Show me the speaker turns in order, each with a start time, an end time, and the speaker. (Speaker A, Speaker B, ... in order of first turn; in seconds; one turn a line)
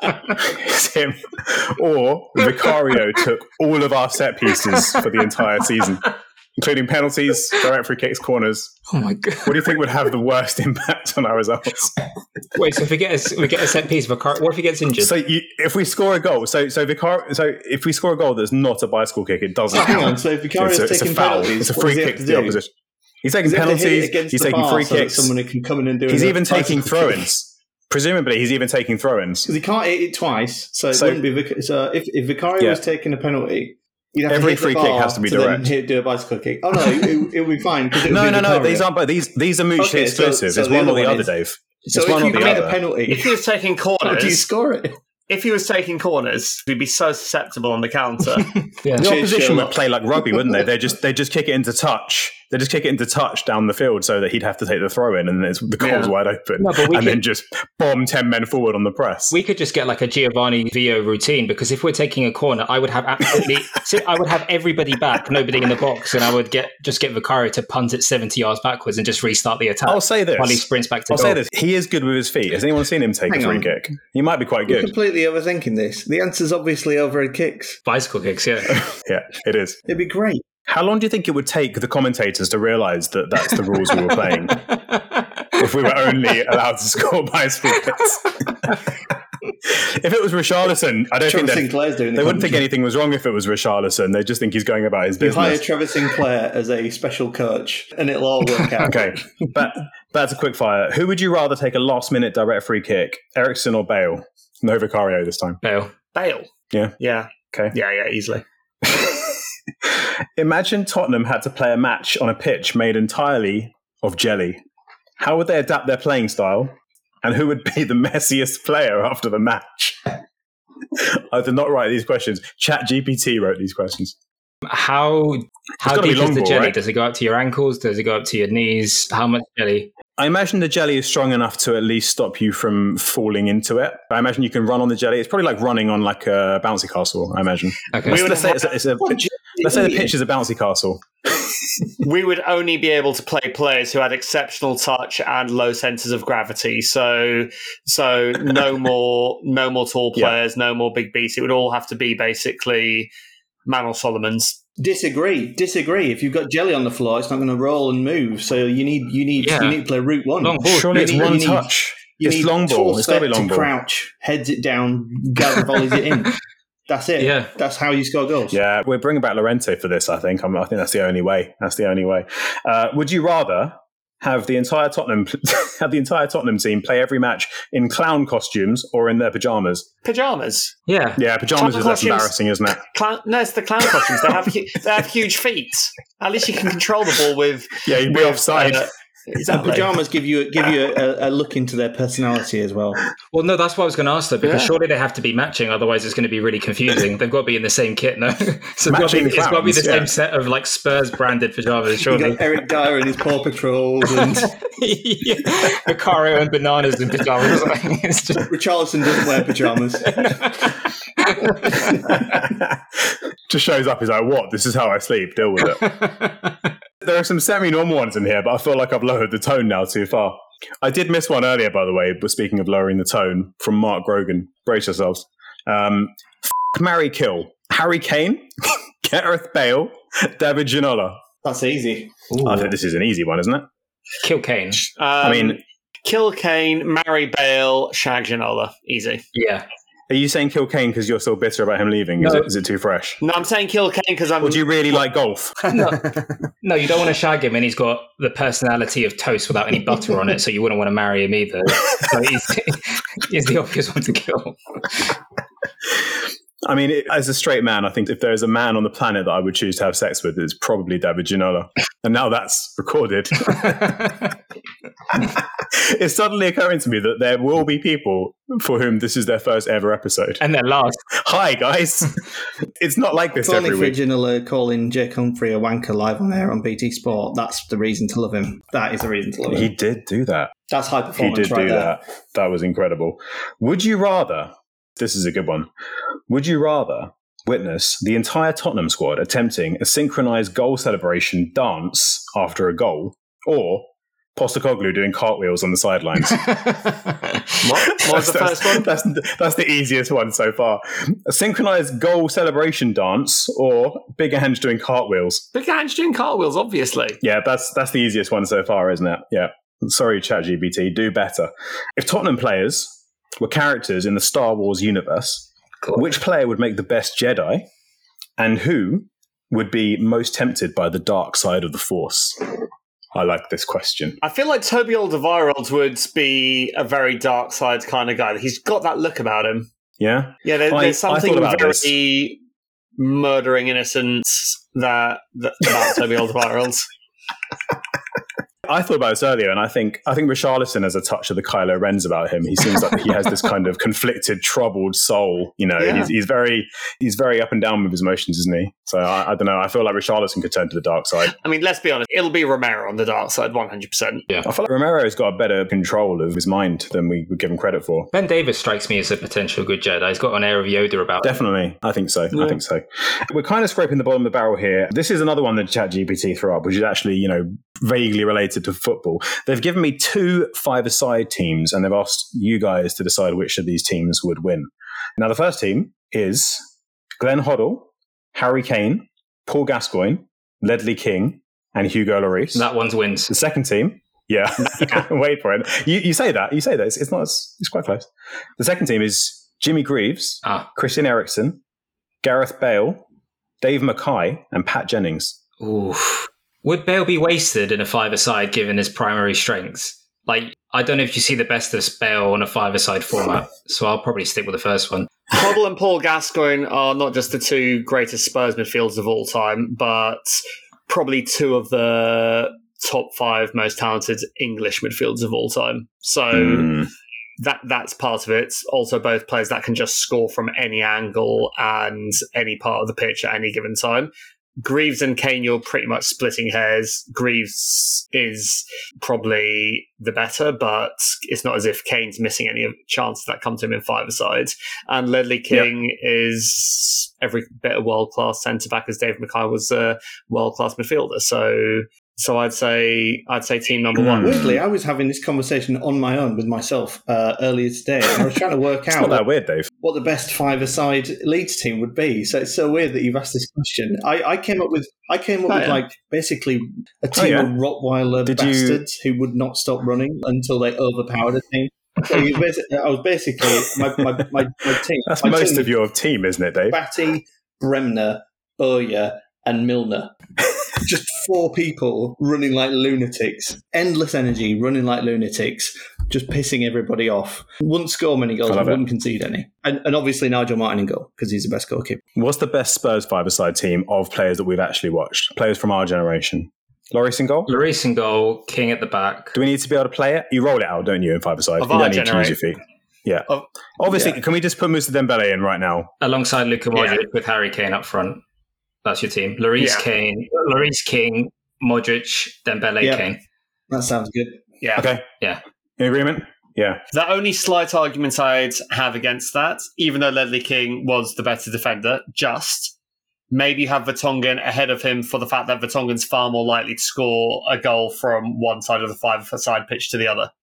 Speaker A: 0.3-8.8
Speaker B: 4.8-5.0
Speaker B: 8.9-9.7
Speaker A: 9.4-11.9
Speaker B: 12.6-15.1
Speaker A: 15.0-22.7
Speaker C: 19.7-22.6
Speaker A: 23.2-25.3
Speaker C: 23.4-27.3
Speaker A: 26.1-29.5
Speaker C: 29.4-38.9
Speaker A: 30.9-31.2
Speaker A: 34.3-35.7
Speaker A: 38.0-42.8
Speaker C: 39.8-41.3
Speaker C: 41.8-43.4
Speaker D: 42.2-44.5
Speaker C: 44.0-45.0
Speaker D: 45.3-48.6
Speaker B: 48.8-49.1
Speaker C: 48.9-49.8
Speaker A: 49.0-59.4
Speaker D: 55.8-56.1
Speaker B: 56.6-57.2
Speaker B: 59.3-71.4
Speaker A: 69.9-74.9
Speaker C: 73.3-73.7
Speaker C: 74.7-77.8
Speaker B: 77.9-78.8
Speaker A: 78.7-79.8
Speaker C: 79.9-80.4
Speaker A: 80.7-84.6
Speaker B: 84.5-86.1
Speaker A: 85.6-88.8
Speaker A: 89.6-95.6
Speaker C: 91.3-92.6
Speaker C: 95.2-99.5
Speaker A: 98.8-105.6
Speaker B: 105.6-105.9
Speaker D: 106.1-108.4
Speaker A: 108.8-109.4
Speaker A: 109.9-114.6
Speaker A: 115.2-120.2
Speaker A: 121.0-124.1
Speaker B: 124.7-129.9
Speaker A: 125.8-126.8
Speaker A: 130.2-141.7
Speaker B: 137.9-138.3
Speaker D: 138.1-138.5
Speaker C: 139.1-140.1
Speaker D: 142.0-153.1
Speaker D: 153.7-154.6
Speaker C: 154.8-166.4
Speaker B: 159.4-159.8
Speaker B: 160.4-160.9
Speaker A: 160.7-163.7
Speaker C: 166.9-168.6
Speaker B: 167.2-167.5
Speaker A: 168.5-179.9
Speaker D: 180.0-180.8
Speaker B: 180.9-181.2
Speaker A: 181.2-182.8
Speaker D: 181.6-189.9
Speaker A: 187.8-188.8
Speaker C: 189.4-193.0
Speaker B: 193.3-202.4
Speaker D: 194.4-194.7
Speaker A: 198.9-200.1
Speaker C: 202.1-204.5
Speaker B: 204.2-208.5
Speaker C: 208.4-210.5
Speaker B: 211.2-211.8
Speaker C: 211.6-211.9
Speaker A: 212.0-215.9
Speaker B: 215.8-216.6
Speaker A: 217.0-231.2
Speaker C: 231.4-232.2
Speaker B: 232.3-232.7
Speaker A: 232.4-233.7
Speaker B: 234.2-234.8
Speaker D: 234.8-239.2
Speaker A: 235.2-235.6
Speaker B: 239.3-239.7
Speaker A: 240.1-243.2
Speaker B: 242.2-242.5
Speaker D: 243.2-245.0
Speaker A: 244.4-245.6
Speaker D: 245.7-246.3
Speaker B: 245.7-255.2
Speaker A: 256.6-264.1
Speaker A: 265.1-270.4
Speaker B: 270.4-271.0
Speaker A: 271.2-272.2
Speaker A: 272.8-274.0
Speaker C: 273.4-279.7
Speaker A: 279.5-280.5
Speaker C: 280.7-282.0
Speaker A: 281.2-285.7
Speaker A: 286.3-296.5
Speaker D: 297.6-298.9
Speaker A: 297.9-305.4
Speaker D: 305.5-307.2
Speaker A: 307.2-317.6
Speaker A: 318.4-322.5
Speaker A: 323.1-324.2
Speaker D: 324.2-329.7
Speaker A: 330.0-331.9
Speaker D: 330.4-332.4
Speaker D: 333.0-336.9
Speaker A: 338.6-351.3
Speaker D: 345.8-346.1
Speaker D: 351.3-354.3
Speaker A: 354.4-358.1
Speaker B: 358.1-361.3
Speaker A: 361.2-382.7
Speaker D: 362.3-362.6
Speaker B: 382.5-383.3
Speaker A: 383.3-391.6
Speaker A: 392.2-393.0
Speaker A: 393.6-395.4
Speaker B: 395.6-405.1
Speaker D: 405.3-416.7
Speaker A: 416.3-416.9
Speaker D: 417.4-444.4
Speaker A: 444.0-444.6
Speaker C: 444.2-449.3
Speaker A: 448.9-449.7
Speaker C: 449.8-465.7
Speaker D: 455.5-455.8
Speaker A: 457.1-457.5
Speaker A: 458.2-458.8
Speaker A: 465.1-466.8
Speaker C: 466.7-470.1
Speaker C: 470.8-482.0
Speaker A: 478.5-478.8
Speaker A: 482.1-487.5
Speaker B: 487.5-489.3
Speaker A: 489.3-493.3
Speaker D: 491.6-492.4
Speaker A: 493.8-495.9
Speaker C: 493.9-494.2
Speaker B: 496.0-498.2
Speaker D: 496.7-497.0
Speaker B: 498.8-503.2
Speaker D: 499.6-499.9
Speaker C: 502.8-503.1
Speaker C: 503.7-504.4
Speaker D: 504.6-504.9
Speaker A: 504.8-505.1
Speaker A: 505.8-506.8
Speaker D: 506.9-512.7
Speaker D: 513.3-520.3